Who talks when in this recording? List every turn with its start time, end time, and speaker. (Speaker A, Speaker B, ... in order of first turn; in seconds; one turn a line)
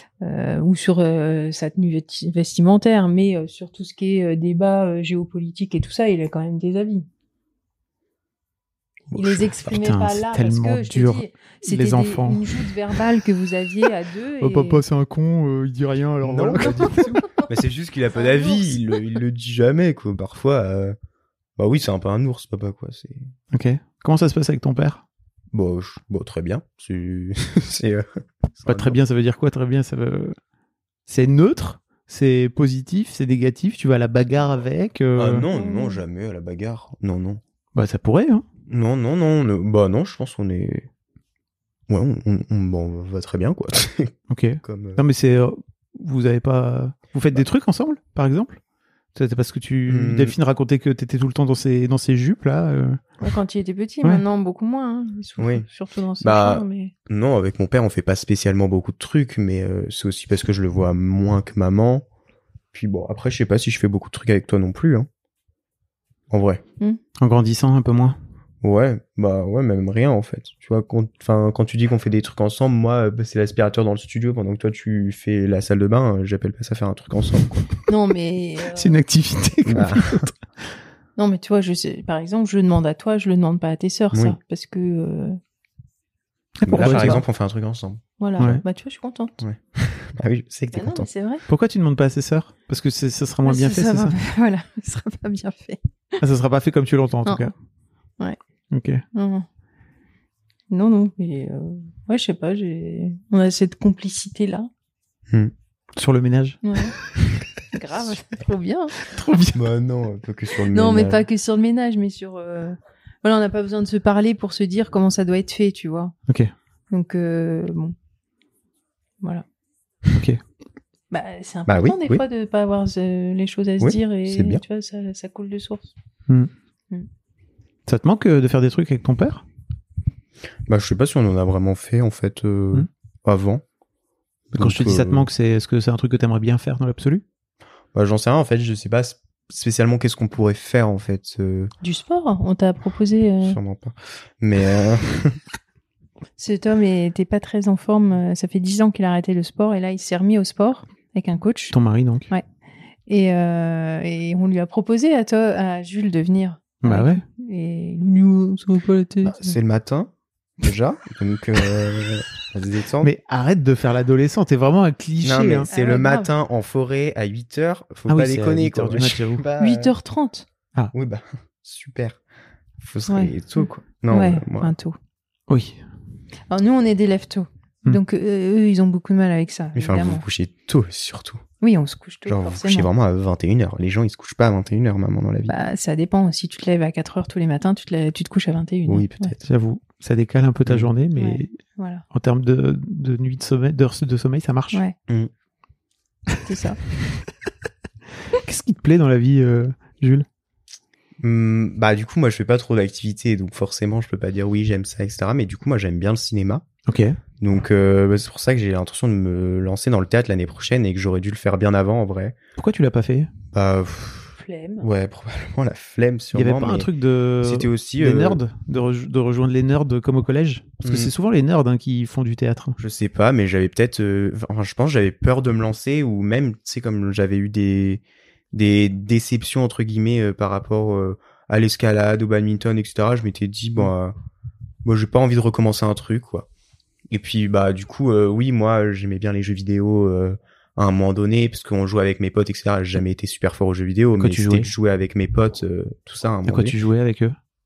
Speaker A: 0.2-7.0
Speaker B: 9.1-9.4
Speaker A: 9.1-14.8
Speaker C: 9.6-12.6
Speaker C: 14.4-16.9
Speaker B: 16.2-21.0
Speaker A: 16.6-17.4
Speaker A: 18.1-18.8
Speaker B: 21.6-23.3
Speaker C: 23.5-25.0
Speaker B: 25.5-29.0
Speaker C: 28.7-30.4
Speaker C: 31.1-35.5
Speaker B: 35.1-37.4
Speaker A: 35.5-36.0
Speaker C: 37.7-38.4
Speaker B: 38.7-40.9
Speaker B: 41.9-45.0
Speaker C: 44.3-48.6
Speaker C: 49.1-53.0
Speaker B: 49.9-50.3
Speaker A: 53.2-56.9
Speaker B: 55.4-55.7
Speaker B: 56.2-62.0
Speaker B: 62.7-65.1
Speaker B: 66.3-66.6
Speaker C: 67.2-68.2
Speaker B: 68.6-77.7
Speaker A: 77.9-79.0
Speaker C: 78.7-80.3
Speaker B: 79.7-80.2
Speaker A: 81.2-85.4
Speaker B: 84.1-84.4
Speaker C: 86.6-87.2
Speaker B: 86.7-88.6
Speaker A: 86.7-87.2
Speaker A: 88.2-89.4
Speaker B: 89.4-91.1
Speaker A: 90.7-91.4
Speaker C: 91.5-94.2
Speaker A: 93.4-96.2
Speaker C: 96.2-97.5
Speaker A: 97.2-97.5
Speaker C: 98.7-99.0
Speaker A: 99.1-99.5
Speaker A: 100.7-104.7
Speaker C: 106.0-106.6
Speaker A: 106.6-107.0
Speaker A: 107.7-109.0
Speaker C: 109.0-109.6
Speaker B: 109.5-111.2
Speaker A: 110.7-116.1
Speaker A: 116.9-117.9
Speaker C: 120.1-120.4
Speaker A: 121.1-125.9
Speaker B: 121.7-122.2
Speaker B: 123.8-124.6
Speaker C: 127.9-129.4
Speaker B: 130.7-133.6
Speaker C: 134.5-137.2
Speaker B: 134.6-135.3
Speaker B: 137.9-141.7
Speaker A: 141.8-143.6
Speaker B: 143.4-145.4
Speaker A: 146.4-151.7
Speaker C: 151.7-152.3
Speaker A: 153.1-159.6
Speaker C: 156.8-157.2
Speaker B: 159.2-163.1
Speaker C: 163.0-165.7
Speaker B: 165.2-169.9
Speaker A: 165.7-166.3
Speaker C: 168.1-169.4
Speaker A: 169.6-170.4
Speaker B: 170.9-172.2
Speaker B: 172.8-174.7
Speaker A: 173.1-174.9
Speaker C: 175.5-175.8
Speaker A: 176.5-180.2
Speaker B: 179.7-181.4
Speaker A: 181.6-182.9
Speaker B: 182.2-185.5
Speaker A: 185.5-189.3
Speaker B: 188.8-189.4
Speaker C: 189.4-191.5
Speaker A: 191.2-192.0
Speaker C: 192.1-194.8
Speaker A: 196.4-196.8
Speaker C: 198.4-200.2
Speaker B: 201.2-206.7
Speaker C: 206.9-207.2
Speaker B: 207.4-212.3
Speaker C: 212.6-213.3
Speaker B: 213.5-216.9
Speaker A: 214.3-214.9
Speaker C: 216.3-222.8
Speaker B: 217.4-218.4
Speaker B: 220.8-221.1
Speaker B: 222.8-234.1
Speaker B: 234.8-236.5
Speaker B: 237.1-246.8
Speaker C: 244.2-244.7
Speaker C: 246.4-247.3